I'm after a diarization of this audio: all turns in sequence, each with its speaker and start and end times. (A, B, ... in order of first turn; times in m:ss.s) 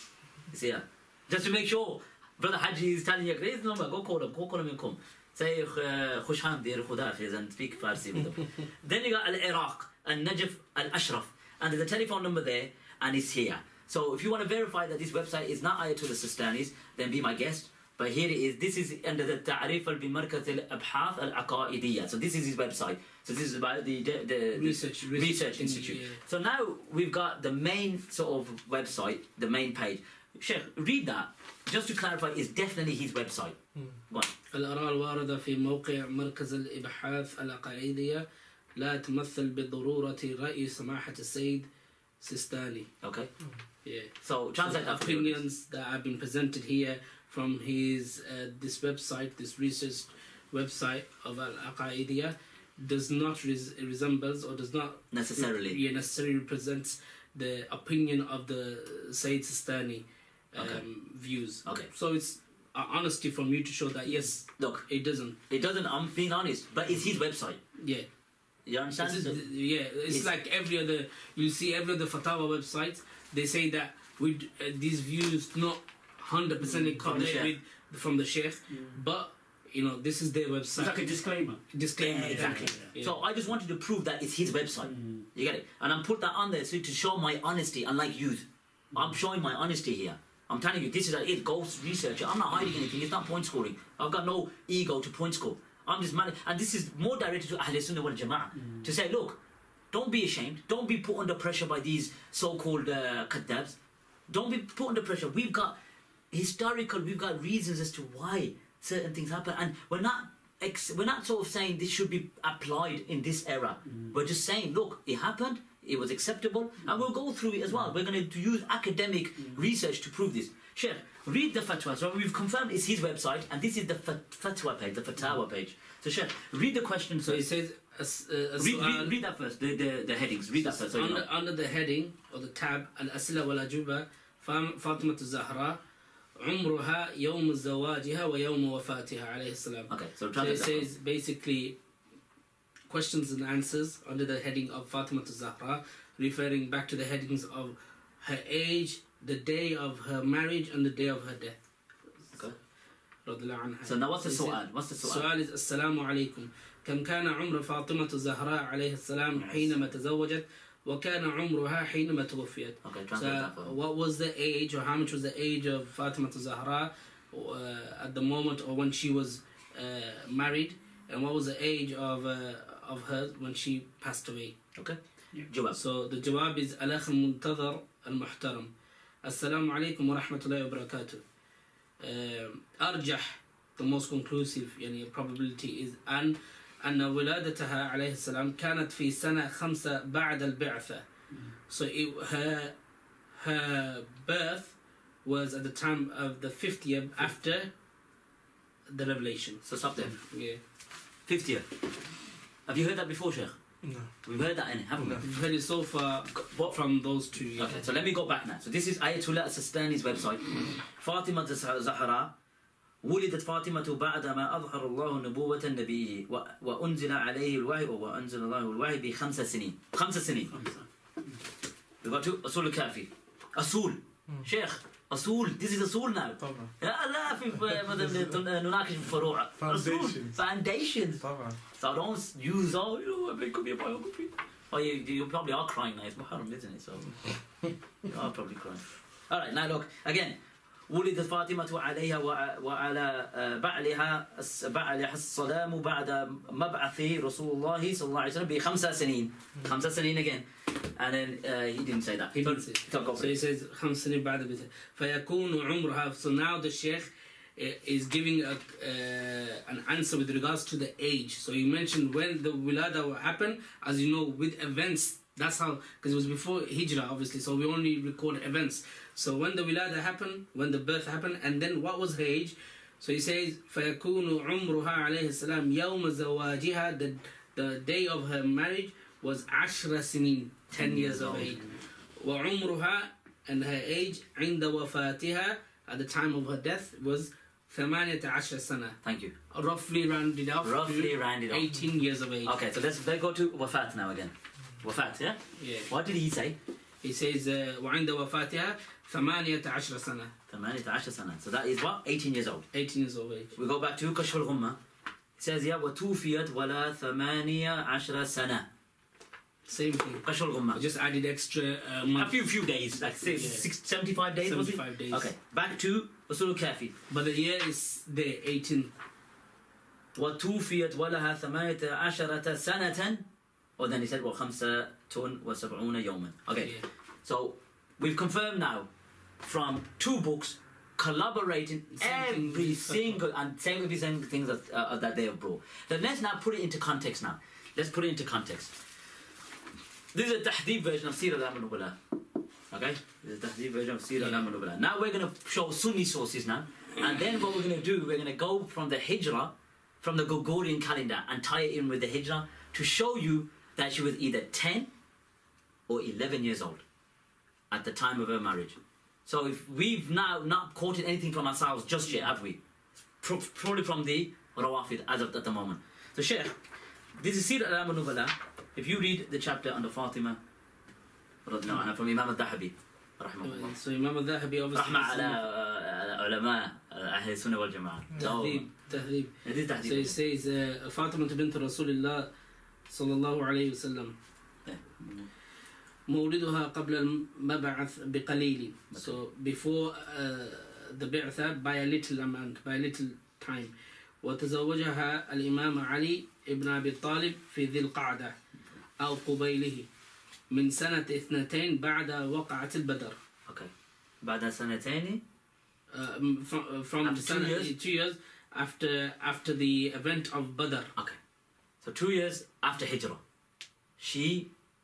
0:00.5-0:33.6 A
0:24.5-0:26.2 B
0:33.7-0:34.0 C
0:34.5-0:38.2 B
0:38.8-0:41.6 B
0:42.2-0:42.9 B
0:43.0-0:43.3 A
0:43.8-1:05.4 B
0:44.2-0:45.4 A
0:55.1-0:55.8 A
1:00.6-1:00.8 A
1:01.6-1:01.9 A
1:04.4-1:04.9 A
1:05.5-1:07.6 A
1:07.8-1:08.0 B
1:08.6-1:09.4 A
1:08.9-1:21.1 B
1:16.6-1:17.0 D
1:17.0-1:17.5 A
1:18.7-1:19.0 D
1:20.8-1:22.9 D
1:21.7-1:23.2 B
1:22.0-1:39.4 A
1:24.8-1:25.3 D
1:38.6-1:38.9 D
1:39.9-1:43.8 A
1:44.3-1:45.8 A
1:46.3-2:07.4 A
1:53.8-1:54.1 D
2:07.2-2:09.2 B
2:08.6-2:11.2 A
2:10.6-2:15.8 B
2:16.4-2:21.7 B
2:19.9-2:20.9 A
2:22.9-2:31.6 B
2:33.2-2:54.5 B
2:33.8-2:35.3 A
2:39.4-2:39.7 A
2:42.8-2:43.7 A
2:54.7-2:55.8 A
2:55.7-2:58.7 B
2:59.2-3:01.2 B
3:02.0-3:11.0 B
3:11.7-3:12.7 B
3:13.3-3:17.7 B
3:18.9-3:20.6 B
3:19.6-3:20.2 A
3:21.3-3:21.7 A
3:22.7-3:23.6 A
3:23.8-3:24.1 C
3:24.2-3:25.3 A
3:25.0-3:25.2 C
3:25.2-3:27.8 B
3:26.3-3:26.8 A
3:27.6-3:32.3 A
3:33.0-3:40.5 A
3:40.5-3:41.4 D
3:42.0-3:57.4 A
3:46.4-3:46.7 C
3:48.0-3:48.3 C
3:49.6-3:50.4 C
3:51.2-3:51.6 C
3:58.0-4:00.4 A
4:00.9-4:13.4 A
4:12.4-4:41.6 B
4:40.7-4:41.6 A
4:42.2-4:49.0 B
4:49.0-4:49.3 A
4:49.5-4:52.5 B
4:50.6-4:51.7 A
4:52.4-4:56.5 A
4:55.6-4:55.9 B
4:57.0-5:00.3 B
5:00.5-5:02.6 A
5:02.7-5:03.5 B
5:03.5-5:04.8 A
5:05.4-5:08.7 A
5:09.7-5:12.5 B
5:10.2-5:10.8 A
5:12.2-5:16.9 A
5:13.2-5:13.6 B
5:14.4-5:15.3 B
5:17.1-5:18.9 B
5:20.1-5:23.2 A
5:23.8-5:28.9 A
5:29.4-5:38.7 A
5:32.0-5:33.2 B
5:40.1-5:42.0 A
5:42.7-5:54.9 A
5:55.9-5:56.8 A
5:57.7-6:02.6 A
6:03.2-6:06.6 A
6:07.2-6:10.4 A
6:11.4-6:13.7 A
6:13.4-6:15.4 B
6:14.7-6:18.7 A
6:18.2-6:22.3 B
6:19.4-6:20.2 A
6:22.9-6:24.1 B
6:24.6-6:25.3 A
6:26.1-6:33.7 B
6:28.9-6:29.2 A
6:34.2-6:38.3 B
6:39.0-6:39.8 B
6:40.5-6:43.1 B
6:44.2-6:45.2 A
6:45.9-6:50.9 B
6:47.0-6:47.7 A
6:51.8-6:53.2 A
6:54.0-6:54.5 A